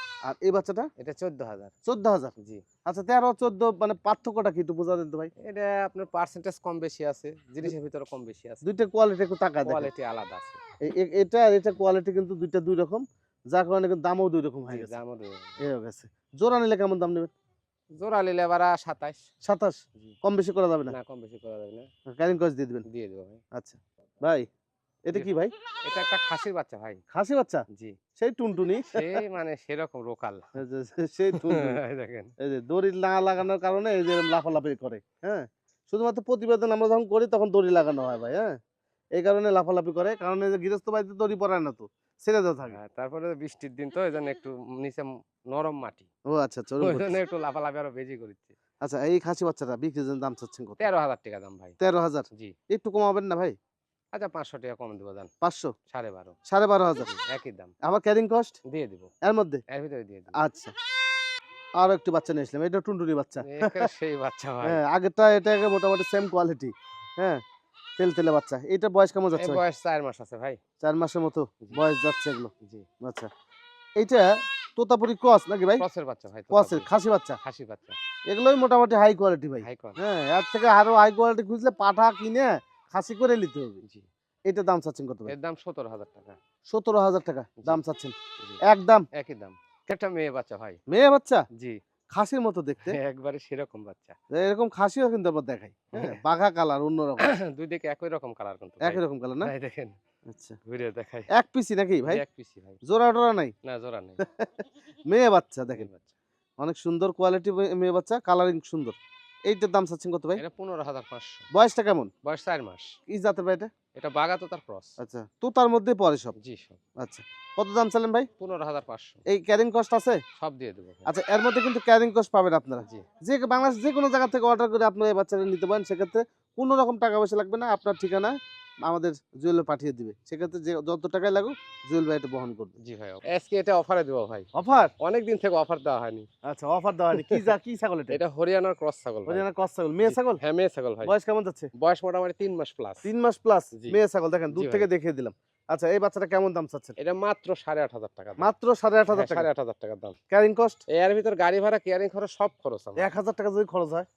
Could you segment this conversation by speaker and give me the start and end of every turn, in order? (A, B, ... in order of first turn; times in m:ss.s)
0:00.2-0:00.9 A
0:01.0-0:01.7 B
0:01.8-0:02.3 A
0:02.8-0:05.3 A
0:05.4-0:08.6 B
0:08.6-0:09.9 A
0:09.6-0:10.6 B
0:10.8-0:14.9 A
0:14.7-0:15.6 B
0:15.6-0:17.3 A
0:18.0-0:19.2 B
0:19.4-0:21.0 A
0:20.9-0:21.9 B
0:22.1-0:22.8 A
0:22.9-0:23.4 B
0:23.5-0:24.4 A
0:25.0-0:25.5 A
0:25.8-0:27.0 B
0:27.1-0:27.6 A
0:27.7-0:28.0 B
0:28.2-0:29.2 A
0:28.9-0:30.4 B
0:30.6-0:31.8 A
0:31.3-0:32.3 B
0:32.4-0:38.6 A
0:39.1-0:42.8 A
0:42.7-0:46.1 B
0:46.3-0:47.2 A
0:46.8-0:48.5 B
0:48.8-0:50.8 A
0:50.8-0:51.8 B
0:51.8-0:53.5 A
0:54.1-0:55.3 B
0:55.4-0:55.7 A
0:55.9-0:56.4 B
0:56.5-0:57.1 A
0:56.9-0:57.7 B
0:57.8-0:58.6 A
0:58.7-0:59.1 B
0:59.2-0:59.6 A
0:59.7-1:00.4 B
1:00.4-1:00.7 A
1:01.8-1:03.9 A
1:03.4-1:04.8 B
1:04.6-1:07.4 A
1:08.0-1:09.6 A
1:09.3-1:10.6 B
1:10.8-1:13.3 A
1:12.6-1:12.8 B
1:14.0-1:15.8 A
1:15.8-1:16.9 B
1:16.5-1:17.4 A
1:17.4-1:18.0 B
1:18.3-1:23.8 A
1:19.6-1:20.0 B
1:24.5-1:25.3 A
1:25.3-1:26.4 B
1:26.7-1:28.1 A
1:28.6-1:29.0 A
1:29.1-1:30.8 B
1:30.9-1:31.4 A
1:32.1-1:33.0 A
1:32.8-1:34.2 B
1:34.3-1:37.3 A
1:35.9-1:36.2 B
1:37.2-1:39.9 B
1:38.8-1:39.5 A
1:40.3-1:40.6 A
1:40.6-1:41.3 B
1:41.3-1:42.2 A
1:42.0-1:42.8 B
1:42.8-1:43.5 A
1:43.6-1:44.2 B
1:44.2-1:44.5 A
1:45.1-1:45.9 A
1:45.7-1:46.1 B
1:46.6-1:49.0 A
1:49.5-1:50.4 A
1:50.4-1:51.4 B
1:51.5-1:52.1 A
1:52.2-1:52.9 B
1:53.1-1:53.7 A
1:53.9-1:55.0 B
1:55.0-1:56.3 A
1:56.4-1:56.8 B
1:57.0-1:58.3 A
1:58.4-1:59.2 B
1:59.3-2:00.2 A
2:00.4-2:01.1 B
2:01.0-2:12.7 A
2:12.8-2:14.5 B
2:14.5-2:14.9 A
2:15.0-2:16.3 B
2:16.4-2:18.2 A
2:17.1-2:17.5 B
2:18.1-2:19.4 B
2:19.3-2:20.4 A
2:20.0-2:21.1 B
2:21.0-2:21.7 A
2:21.8-2:23.1 B
2:23.0-2:27.0 A
2:23.7-2:24.0 B
2:24.5-2:24.9 B
2:27.0-2:28.5 B
2:28.4-2:29.5 A
2:29.1-2:30.2 B
2:30.3-2:30.8 A
2:30.9-2:33.1 B
2:33.0-2:34.1 A